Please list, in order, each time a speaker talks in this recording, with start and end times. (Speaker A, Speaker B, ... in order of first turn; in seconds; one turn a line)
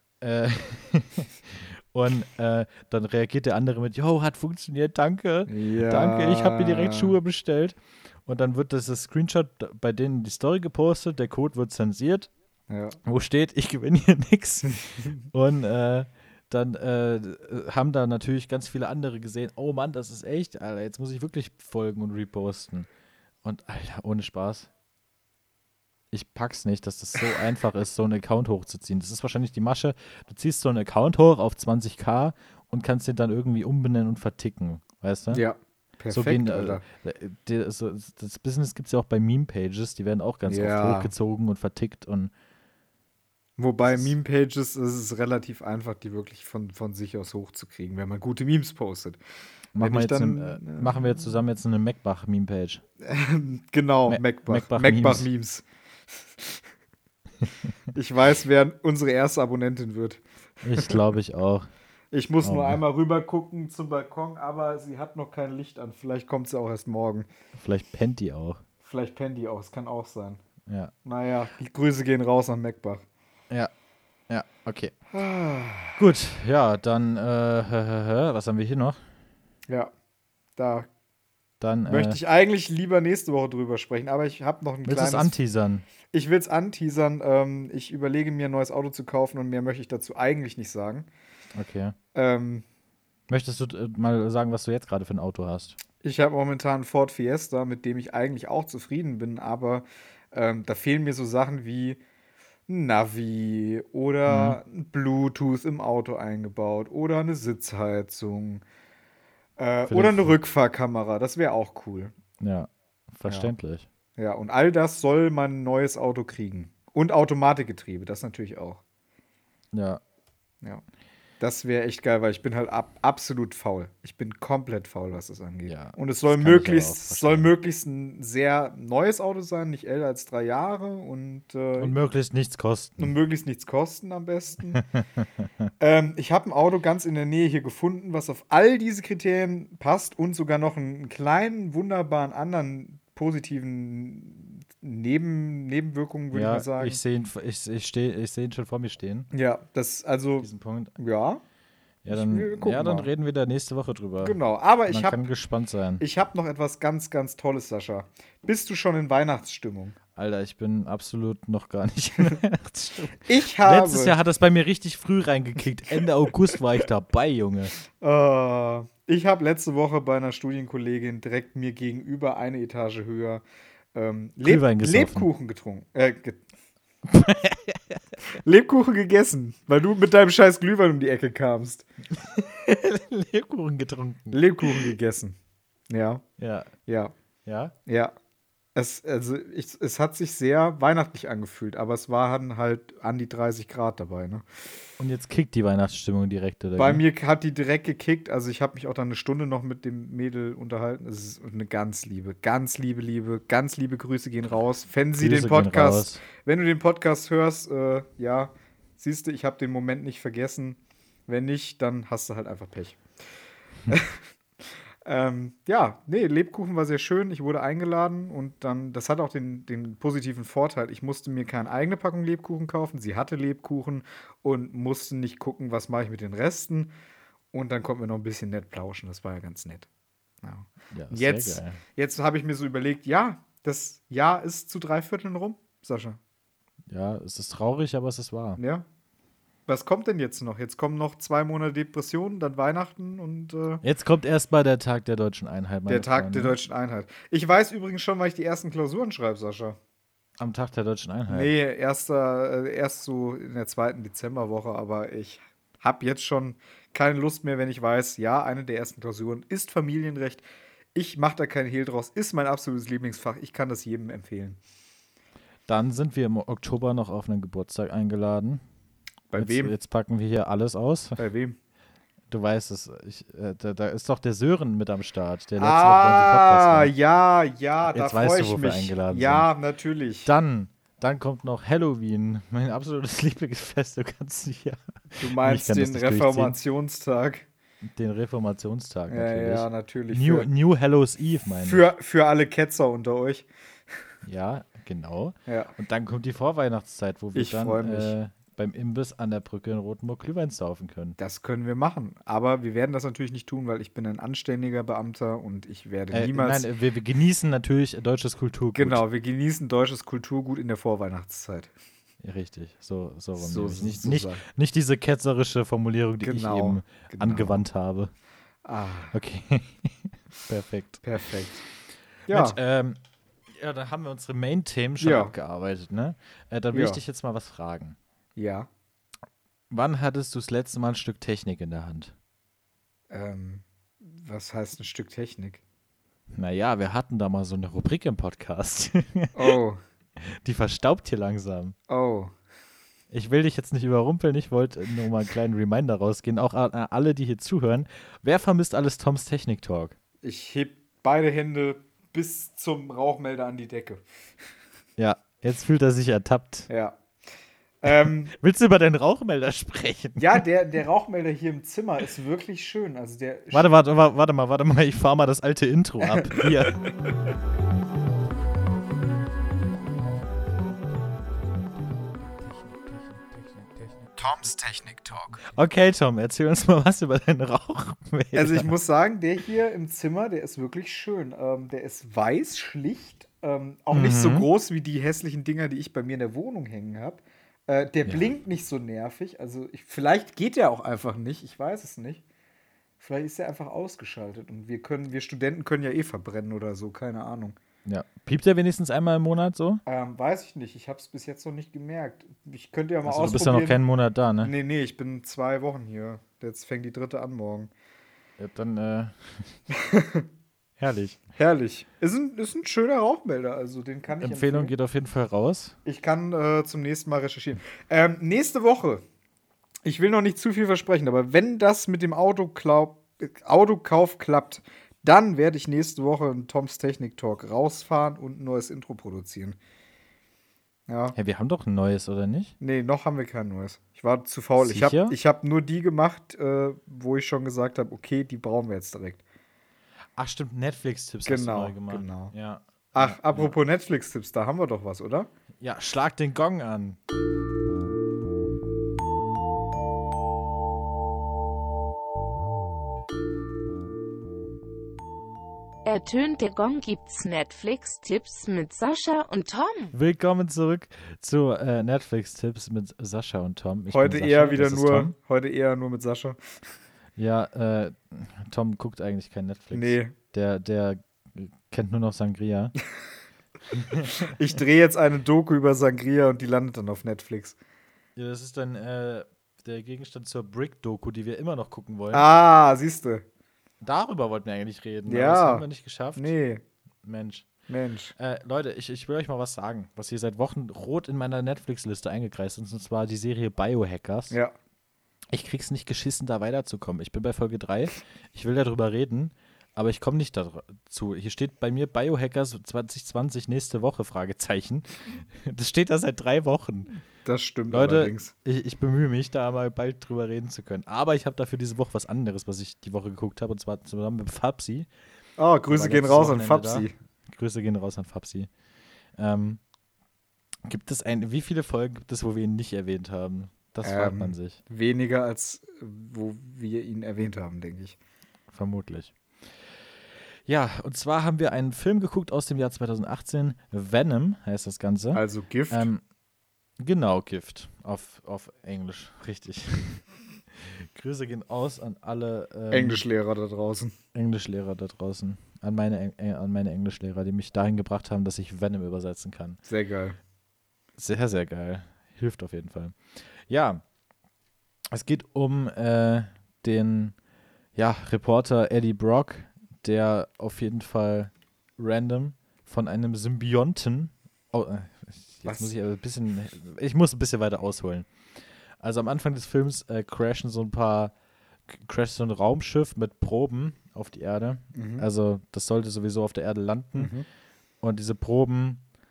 Speaker A: 0.2-12.3
Speaker B: 5.5-7.2
Speaker B: 12.7-13.0
Speaker A: 13.0-22.9
Speaker A: 23.4-24.7
Speaker A: 26.1-35.4
Speaker B: 35.3-36.8
Speaker A: 36.1-42.3
Speaker B: 40.5-41.1
Speaker B: 43.6-49.2
Speaker B: 49.7-51.4
Speaker A: 49.7-52.8
Speaker B: 53.0-56.6
Speaker A: 54.1-55.3
Speaker B: 57.9-60.2
Speaker A: 60.6-61.7
Speaker B: 60.7-61.0
Speaker B: 62.1-67.3
Speaker A: 62.4-62.8
Speaker A: 67.5-68.6
Speaker B: 68.8-70.4
Speaker A: 70.7-70.9
Speaker B: 71.0-73.0
Speaker A: 74.3-74.9
Speaker B: 75.1-76.0
Speaker A: 76.0-79.0
Speaker B: 80.5-80.9
Speaker A: 81.6-82.2
Speaker B: 81.9-85.3
Speaker A: 84.8-85.8
Speaker B: 86.1-91.1
Speaker A: 91.5-92.0
Speaker B: 92.1-92.6
Speaker A: 93.3-95.8
Speaker B: 96.0-102.0
Speaker B: 102.7-108.6
Speaker A: 104.3-104.6
Speaker B: 109.6-112.1
Speaker A: 109.9-110.4
Speaker A: 112.4-113.9
Speaker B: 114.2-118.8
Speaker A: 119.7-120.0
Speaker B: 121.4-131.9
Speaker A: 125.7-127.5
Speaker A: 131.8-133.1
Speaker B: 133.0-134.8
Speaker A: 134.8-135.2
Speaker B: 135.8-147.0
Speaker A: 146.3-149.3
Speaker B: 149.3-151.4
Speaker A: 150.4-150.9
Speaker A: 152.0-156.0
Speaker B: 152.1-153.1
Speaker B: 154.2-155.2
Speaker B: 156.0-159.9
Speaker A: 160.2-167.7
Speaker B: 163.2-164.2
Speaker B: 167.9-173.4
Speaker B: 173.9-176.4
Speaker A: 174.4-175.3
Speaker A: 177.1-178.0
Speaker B: 178.4-181.8
Speaker A: 182.2-184.9
Speaker B: 184.3-185.4
Speaker B: 185.9-186.2
Speaker A: 186.4-186.7
Speaker B: 186.9-187.1
Speaker A: 187.4-187.7
Speaker B: 187.8-188.1
Speaker B: 188.7-194.4
Speaker A: 195.0-197.0
Speaker B: 196.8-213.0
Speaker A: 205.2-206.2
Speaker B: 213.9-226.9
Speaker B: 227.5-229.9
Speaker B: 230.4-236.2
Speaker A: 230.9-231.8
Speaker A: 236.9-238.6
Speaker B: 238.6-238.8
Speaker B: 239.7-243.8
Speaker A: 243.8-246.6
Speaker B: 245.9-249.8
Speaker A: 250.4-251.5
Speaker B: 251.3-264.6
Speaker A: 265.7-268.6
Speaker B: 269.3-269.7
Speaker A: 269.4-271.2
Speaker B: 271.2-271.6
Speaker A: 272.3-276.9
Speaker B: 275.6-280.3
Speaker A: 277.9-279.5
Speaker A: 280.2-286.6
Speaker B: 285.2-287.5
Speaker A: 287.8-291.8
Speaker B: 289.1-290.5
Speaker B: 291.6-293.9
Speaker A: 294.2-301.2
Speaker B: 295.5-295.7
Speaker B: 297.3-298.1
Speaker B: 301.2-306.7
Speaker A: 306.1-309.0
Speaker B: 308.7-311.7
Speaker A: 312.2-318.1
Speaker B: 313.4-314.4
Speaker B: 316.2-317.6
Speaker B: 318.6-319.1
Speaker A: 319.1-321.0
Speaker B: 321.0-321.6
Speaker B: 322.3-322.6
Speaker A: 322.3-323.0
Speaker A: 323.5-328.0
Speaker B: 325.0-325.3
Speaker B: 326.7-327.0
Speaker B: 328.4-328.7
Speaker A: 329.7-332.1
Speaker B: 333.1-335.6
Speaker A: 336.3-339.5
Speaker B: 339.3-339.8
Speaker A: 340.2-341.8
Speaker B: 341.9-342.3
Speaker A: 343.1-349.9
Speaker B: 350.2-354.0
Speaker A: 355.0-356.7
Speaker B: 356.7-357.0
Speaker B: 357.8-358.3
Speaker A: 357.9-360.4
Speaker B: 360.2-363.7
Speaker A: 363.5-366.8
Speaker B: 374.1-375.4
Speaker A: 375.5-378.7
Speaker B: 378.3-392.2
Speaker A: 383.9-384.5
Speaker B: 393.0-397.6
Speaker A: 397.9-399.8
Speaker B: 399.9-403.8
Speaker A: 403.1-404.5
Speaker B: 404.4-407.7
Speaker A: 408.4-409.6
Speaker B: 409.7-410.3
Speaker A: 410.8-411.2
Speaker B: 411.4-414.7
Speaker A: 414.2-415.7
Speaker B: 415.8-419.0
Speaker B: 419.8-429.6
Speaker B: 430.9-431.1
Speaker A: 431.1-432.5
Speaker B: 432.6-439.2
Speaker A: 434.6-435.1
Speaker A: 440.2-443.5
Speaker B: 441.2-442.3
Speaker B: 442.9-445.3
Speaker A: 445.6-447.0
Speaker C: 455.8-459.9
Speaker A: 459.9-465.1
Speaker B: 463.9-466.4
Speaker A: 467.2-472.8
Speaker B: 469.7-470.1
Speaker A: 473.7-474.3
Speaker B: 474.2-477.6
Speaker A: 478.1-482.2
Speaker B: 482.1-483.2
Speaker A: 483.8-486.3
Speaker B: 485.1-485.6
Speaker B: 486.1-486.6
Speaker A: 487.0-487.5
Speaker B: 487.7-488.1
Speaker A: 488.2-494.4
Speaker A: 495.3-507.0
Speaker B: 507.2-508.3
Speaker A: 507.7-514.9
Speaker B: 515.4-516.9
Speaker A: 515.7-518.5
Speaker A: 519.2-519.6
Speaker A: 520.6-524.6
Speaker B: 523.8-528.0
Speaker A: 528.5-529.1
Speaker A: 530.5-536.0
Speaker B: 535.1-535.9
Speaker A: 536.8-543.0
Speaker B: 542.7-543.9
Speaker A: 544.1-549.6
Speaker B: 549.7-550.2
Speaker A: 551.0-553.8
Speaker A: 554.9-557.1
Speaker A: 557.8-568.1
Speaker B: 565.4-565.7
Speaker A: 568.8-571.1
Speaker A: 571.7-577.1
Speaker B: 574.7-575.0
Speaker B: 577.0-577.3
Speaker A: 577.8-578.8